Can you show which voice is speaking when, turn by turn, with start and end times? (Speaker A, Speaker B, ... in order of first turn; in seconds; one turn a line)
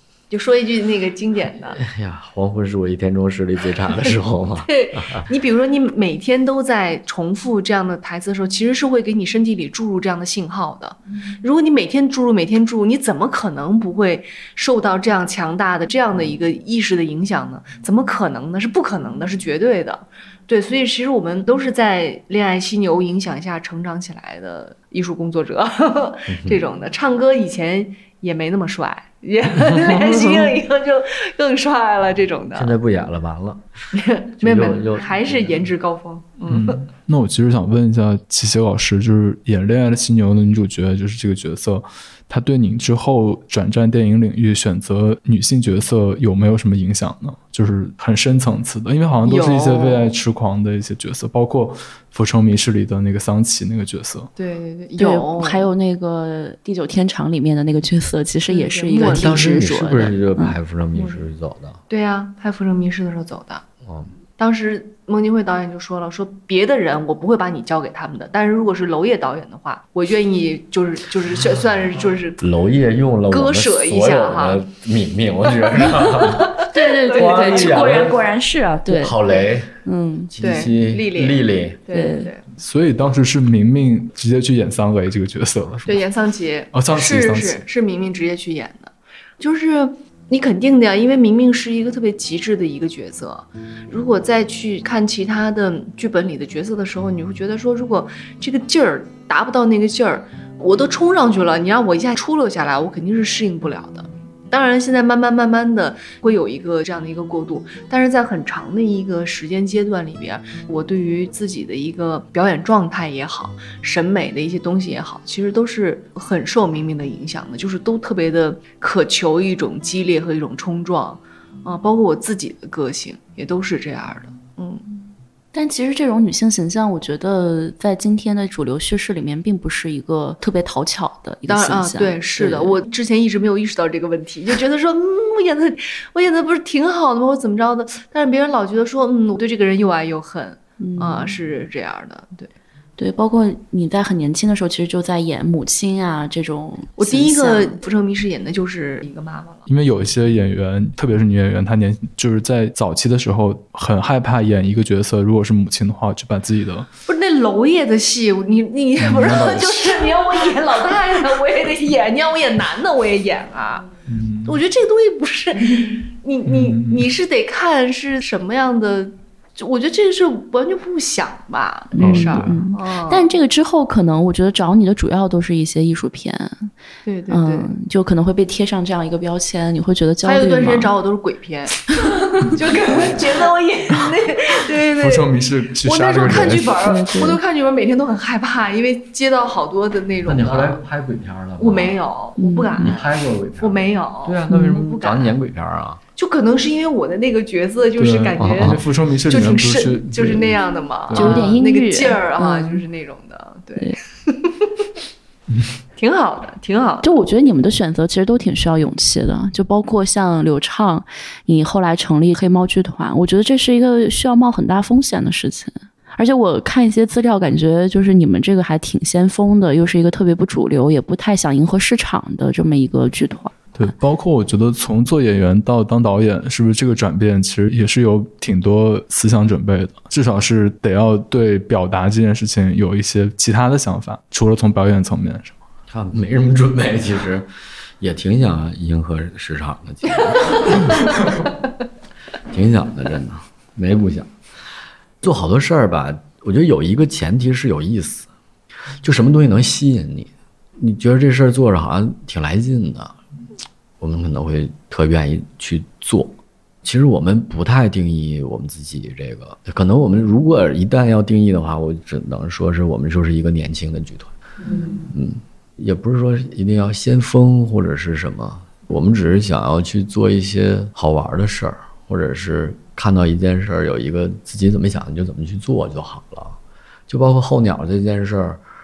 Speaker A: 0.3-1.8
Speaker B: 1.7-5.3
Speaker A: 4.6-32.7
Speaker B: 26.3-26.6
Speaker B: 29.5-30.6
Speaker B: 32.5-33.6
Speaker A: 33.9-36.8
Speaker B: 34.4-35.6
Speaker C: 36.5-54.3
Speaker A: 49.2-50.1
Speaker A: 54.4-55.7
Speaker D: 55.0-60.5
Speaker A: 58.5-59.6
Speaker B: 59.0-61.8
Speaker A: 61.0-61.2
Speaker A: 61.9-63.6
Speaker B: 63.8-64.1
Speaker A: 64.4-72.5
Speaker B: 72.4-78.2
Speaker A: 73.3-74.7
Speaker A: 75.7-78.3
Speaker D: 76.6-79.2
Speaker B: 78.9-79.7
Speaker D: 79.8-80.3
Speaker B: 80.3-81.8
Speaker A: 80.4-82.4
Speaker D: 81.9-82.3
Speaker C: 82.6-86.0
Speaker A: 85.8-124.8
Speaker C: 86.7-87.6
Speaker D: 125.5-132.8
Speaker A: 131.5-142.5
Speaker D: 140.8-141.4
Speaker D: 143.0-147.8
Speaker A: 147.0-149.7
Speaker C: 149.7-156.9
Speaker A: 157.1-163.9
Speaker C: 159.0-160.2
Speaker C: 164.1-164.6
Speaker A: 164.4-173.3
Speaker C: 166.4-167.1
Speaker D: 171.9-176.7
Speaker C: 172.0-172.6
Speaker A: 177.0-177.7
Speaker D: 177.3-180.9
Speaker A: 180.2-185.3
Speaker C: 184.9-186.8
Speaker A: 185.8-190.8
Speaker D: 186.8-187.4
Speaker B: 190.2-192.0
Speaker A: 191.6-195.3
Speaker D: 192.4-192.9
Speaker B: 192.8-196.0
Speaker D: 194.5-194.8
Speaker A: 196.2-204.8
Speaker C: 197.9-200.5
Speaker B: 198.4-198.8
Speaker C: 201.1-201.5
Speaker D: 201.1-202.8
Speaker A: 205.9-207.1
Speaker D: 207.0-223.5
Speaker C: 223.7-235.6
Speaker B: 235.9-237.5
Speaker B: 238.0-241.2
Speaker B: 242.5-244.3
Speaker B: 245.2-248.3
Speaker B: 249.0-253.2
Speaker B: 254.0-264.3
Speaker B: 265.1-276.6
Speaker B: 277.1-278.6